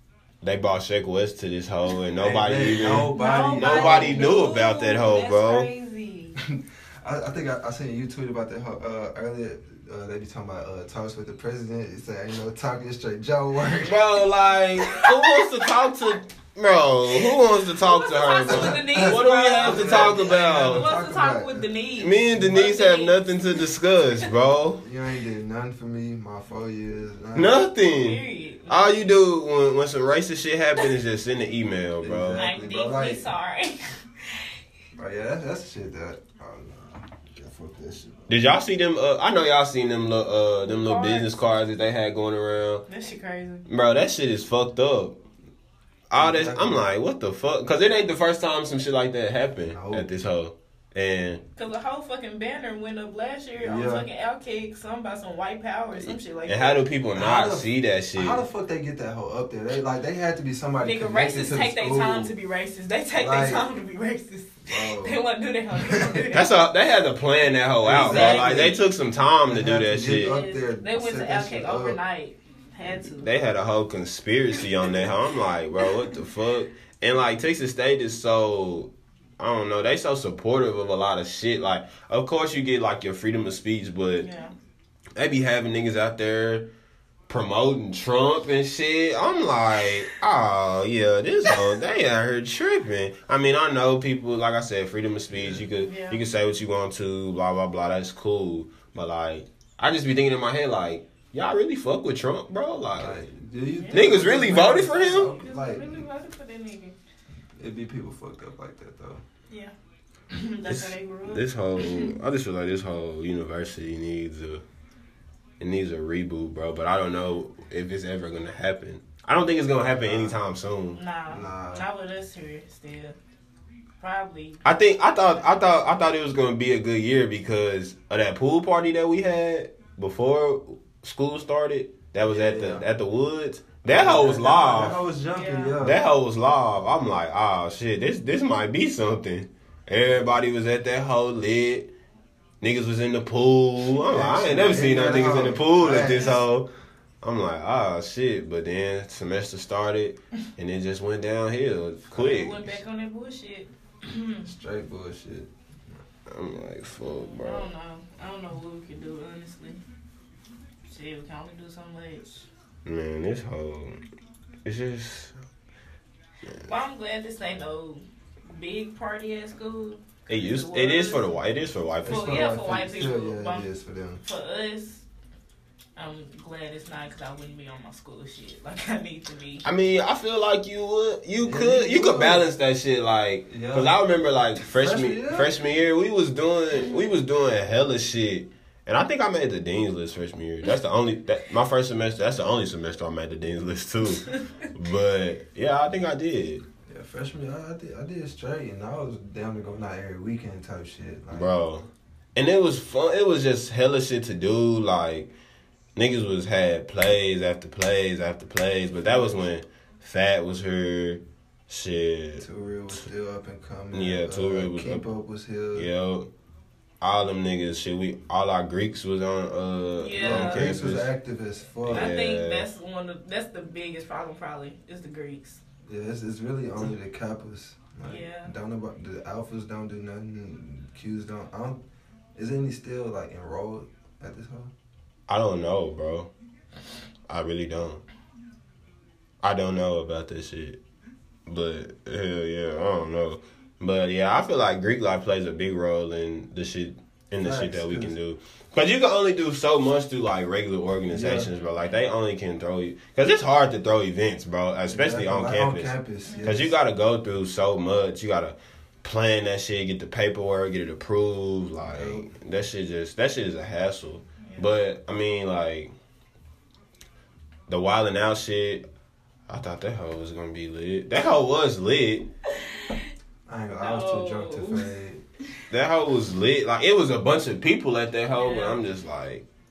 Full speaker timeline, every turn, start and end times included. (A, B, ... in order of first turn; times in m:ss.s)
0:00.4-0:05.7 A
0:02.2-0:04.3 B
0:03.2-0:06.4 C
0:06.4-0:14.0 B
0:13.8-0:20.9 A
0:15.0-0:15.6 C
0:17.9-0:23.7 C
0:18.5-0:21.7 B
0:22.0-0:24.8 A
0:24.8-0:27.6 B
0:27.4-0:32.4 A
0:27.8-0:29.1 C
0:32.0-0:33.2 B
0:32.4-0:34.0 C
0:34.9-0:38.4 B
0:38.3-0:42.9 A
0:40.7-0:41.4 C
0:42.9-0:43.7 C
0:43.7-0:45.2 A
0:46.1-0:51.4 A
0:46.2-0:46.8 B
0:49.7-0:50.1 B
0:51.6-0:56.8 C
0:53.6-0:54.1 B
0:56.0-0:58.4 A
0:57.2-1:02.3 B
1:00.8-1:06.5 C
1:03.2-1:03.6 B
1:04.7-1:05.2 B
1:05.8-1:06.2 B
1:06.3-1:10.4 A
1:07.8-1:08.8 B
1:08.0-1:08.8 C
1:09.5-1:12.0 B
1:10.1-1:13.3 C
1:13.2-1:24.3 A
1:24.2-1:24.5 C
1:25.2-1:26.7 A
1:27.3-1:43.3 A
1:35.3-1:35.6 B
1:35.8-1:36.2 C
1:43.0-1:46.1 B
1:43.7-1:44.2 C
1:43.9-1:45.3 A
1:45.3-1:47.0 C
1:47.6-1:49.2 B
1:50.3-1:52.1 C
1:50.6-1:54.6 A
1:55.6-2:01.0 A
2:00.0-2:00.4 B
2:01.0-2:03.2 C
2:01.3-2:01.9 B
2:04.0-2:04.6 C
2:04.6-2:15.0 A
2:05.2-2:06.0 C
2:12.2-2:12.8 B
2:13.9-2:16.0 B
2:15.4-2:15.8 C
2:15.8-2:21.9 A
2:22.6-2:26.7 A
2:24.1-2:26.4 B
2:26.0-2:26.4 C
2:27.2-2:32.8 A
2:32.1-2:34.5 C
2:34.4-2:36.0 B
2:36.3-2:37.7 A
2:37.1-2:39.8 C
2:40.9-2:42.5 C
2:42.8-2:44.0 A
2:44.6-2:45.4 A
2:46.6-2:51.3 C
2:50.3-2:52.5 A
2:52.0-2:54.2 B
2:52.1-2:53.7 C
2:54.2-2:55.0 C
2:56.0-2:59.6 C
2:59.6-3:16.6 A
3:01.4-3:02.5 B
3:03.5-3:04.0 B
3:04.6-3:05.5 B
3:16.9-3:21.5 B
3:21.3-3:25.3 A
3:26.0-3:32.5 A
3:32.4-3:35.9 B
3:33.9-3:35.0 A
3:35.7-3:36.3 A
3:37.0-3:41.1 A
3:40.0-3:40.7 C
3:40.2-3:42.1 B
3:41.9-3:42.7 A
3:41.9-3:45.6 C
3:45.9-3:51.8 B
3:48.0-3:48.5 C
3:52.4-3:54.7 B
3:55.3-3:56.3 A
3:57.3-3:58.0 A
3:59.4-4:00.8 A
4:01.5-4:15.9 A
4:07.4-4:08.2 B
4:11.1-4:11.5 B
4:14.9-4:16.7 B
4:16.3-4:16.6 C
4:16.4-4:25.9 A
4:21.8-4:22.3 B
4:24.4-4:24.7 C
4:27.7-4:28.8 A
4:29.5-4:32.3 A
4:33.5-4:35.2 B
4:33.8-4:34.9 C
4:35.7-4:39.5 A
4:38.4-4:38.8 C